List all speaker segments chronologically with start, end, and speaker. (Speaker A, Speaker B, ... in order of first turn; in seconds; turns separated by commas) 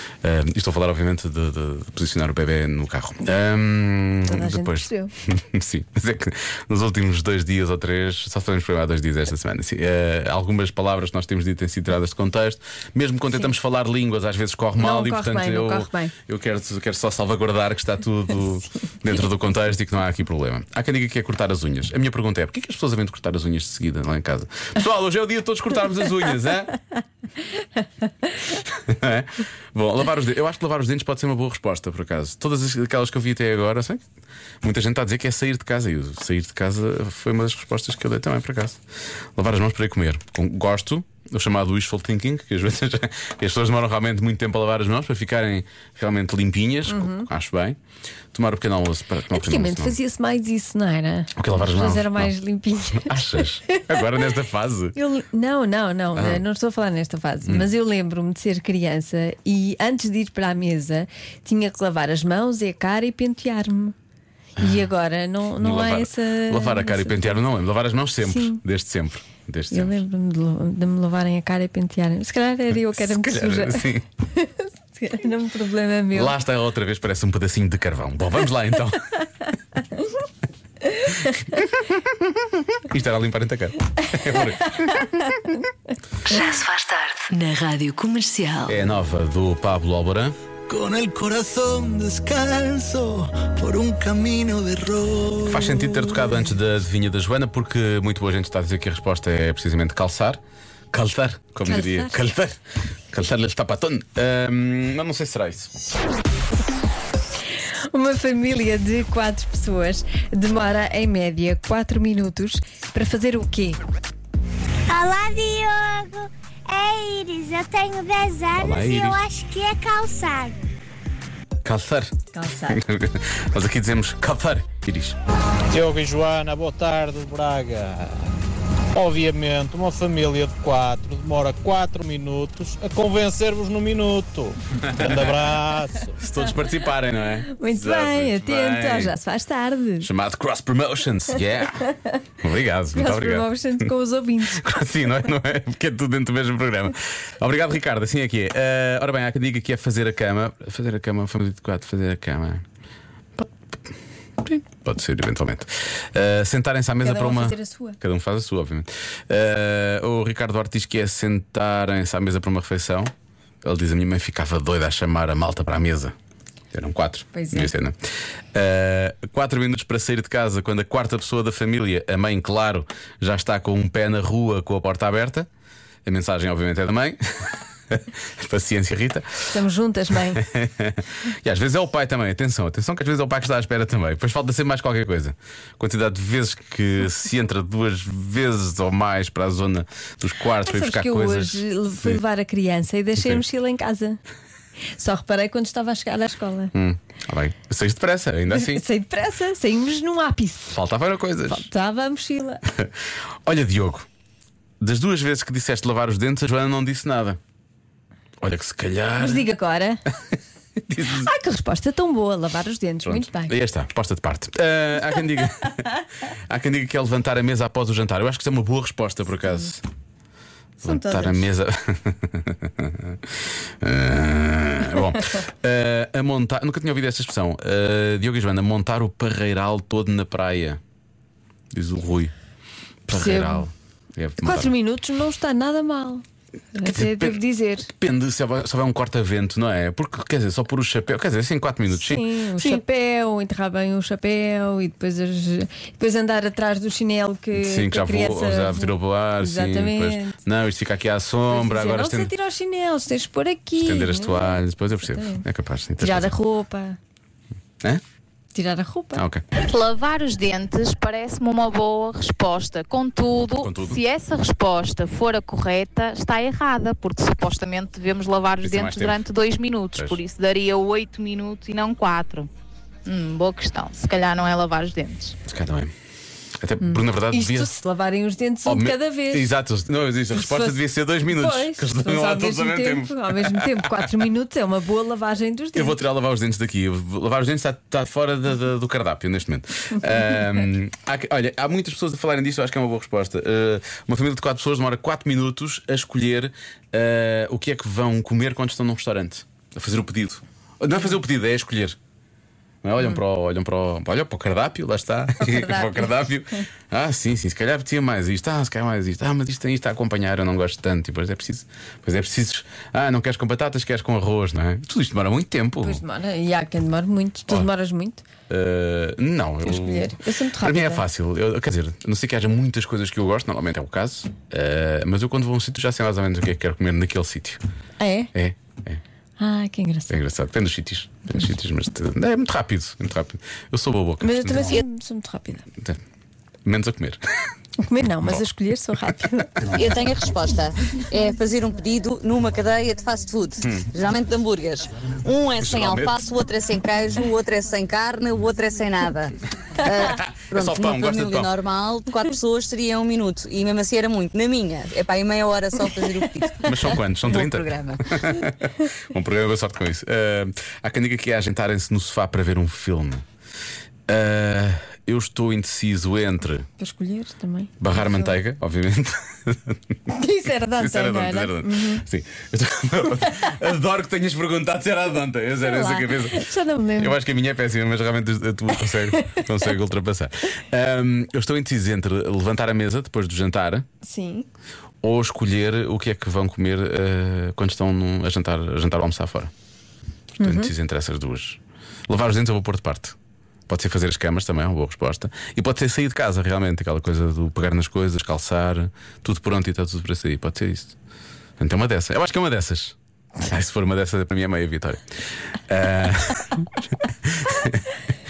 Speaker A: 0.2-26.7, Speaker B: 4.2-5.1, Speaker B: 14.8-16.1, Speaker A: 28.7-34.0, Speaker A: 34.6-38.8, Speaker A: 39.4-47.8, Speaker B: 46.9-47.3, Speaker A: 48.3-50.0, Speaker B: 49.3-53.9, Speaker A: 51.4-52.3, Speaker A: 52.9-55.0, Speaker B: 55.0-63.9, Speaker A: 56.1-56.4, Speaker B: 64.6-67.4, Speaker A: 64.6-64.8, Speaker A: 65.6-70.0, Speaker B: 68.2-68.6, Speaker B: 69.7-76.3, Speaker A: 72.9-74.0, Speaker A: 76.1-79.0, Speaker B: 80.8-81.4, Speaker A: 82.8-85.0, Speaker B: 84.8-85.6, Speaker C: 86.3-88.8, Speaker A: 88.7-90.3, Speaker D: 90.7-96.3, Speaker A: 95.5-100.4, Speaker A: 100.9-102.6, Speaker B: 101.7-102.2, Speaker A: 103.1-105.7, Speaker B: 107.9-113.8, Speaker E: 114.9-120.6, Speaker A: 118.5-119.2, Speaker A: 121.6-122.1, Speaker B: 122.3-122.8, Speaker A: 122.7-125.2, Speaker F: 125.7-128.3, Speaker F: 128.9-136.1, Speaker A: 134.8-135.4, Speaker A: 136.2-139.1, Speaker B: 137.5-140.1, Speaker A: 140.0-141.8, Speaker A: 142.4-143.9, Speaker B: 142.9-144.6, Speaker A: 144.4-152.6, Speaker A: 153.3-163.1, Speaker B: 157.0-158.0, Speaker A: 163.6-166.1, Speaker A: 166.7-168.0, Speaker B: 167.3-167.7, Speaker A: 168.5-175.5, Speaker A: 176.0-179.4, Speaker B: 179.5-180.4, Speaker A: 180.3-192.2, Speaker B: 190.6-194.2, Speaker B: 195.0-196.7, Speaker A: 196.7-198.8, Speaker B: 198.5-200.8, Speaker A: 200.7-201.7, Speaker B: 201.5-202.6, Speaker A: 203.4-204.1, Speaker A: 204.8-207.4, Speaker A: 208.4-209.4, Speaker B: 209.2-210.0, Speaker A: 210.8-211.3, Speaker B: 211.2-213.5, Speaker A: 213.0-215.8, Speaker A: 216.5-219.8, Speaker A: 220.8-223.2, Speaker B: 220.8-221.5, Speaker A: 223.8-230.8, Speaker A: 231.7-232.3, Speaker A: 233.1-234.7, Speaker B: 233.1-233.7, Speaker B: 234.4-236.2, Speaker B: 236.7-237.9, Speaker A: 236.8-242.8, Speaker B: 241.9-250.4, Speaker A: 247.5-252.3, Speaker B: 251.5-255.4, Speaker A: 253.8-256.3, Speaker B: 256.0-257.0, Speaker B: 258.5-259.2, Speaker A: 259.1-259.4, Speaker G: 259.6-272.5, Speaker A: 263.6-264.0, Speaker A: 268.6-269.2, Speaker G: 273.1-275.4, Speaker A: 275.4-275.9, Speaker A: 276.6-277.7, Speaker B: 276.8-279.5, Speaker A: 278.6-284.0, Speaker B: 280.3-286.0, Speaker A: 285.8-302.0, Speaker A: 302.8-316.0, Speaker B: 305.4-306.2, Speaker B: 315.8-318.2, Speaker A: 318.5-327.6, Speaker B: 319.6-321.0, Speaker B: 328.0-328.3, Speaker A: 328.3-329.0, Speaker B: 329.4-330.1, Speaker A: 330.1-334.8, Speaker B: 334.2-335.6, Speaker A: 336.6-337.2, Speaker B: 337.8-339.5, Speaker H: 339.7-358.0, Speaker A: 343.6-343.9, Speaker A: 345.6-346.1, Speaker A: 350.0-351.5, Speaker A: 356.6-363.2, Speaker A: 364.1-366.7, Speaker B: 366.8-368.4, Speaker A: 367.8-369.8, Speaker B: 370.1-372.0, Speaker A: 370.7-376.4, Speaker B: 375.6-377.1, Speaker A: 377.0-383.9, Speaker B: 378.9-379.7, Speaker B: 384.0-384.5, Speaker A: 385.0-389.5, Speaker B: 390.4-390.7, Speaker A: 390.4-393.1, Speaker A: 393.7-400.9, Speaker A: 401.6-406.7, Speaker A: 407.2-407.8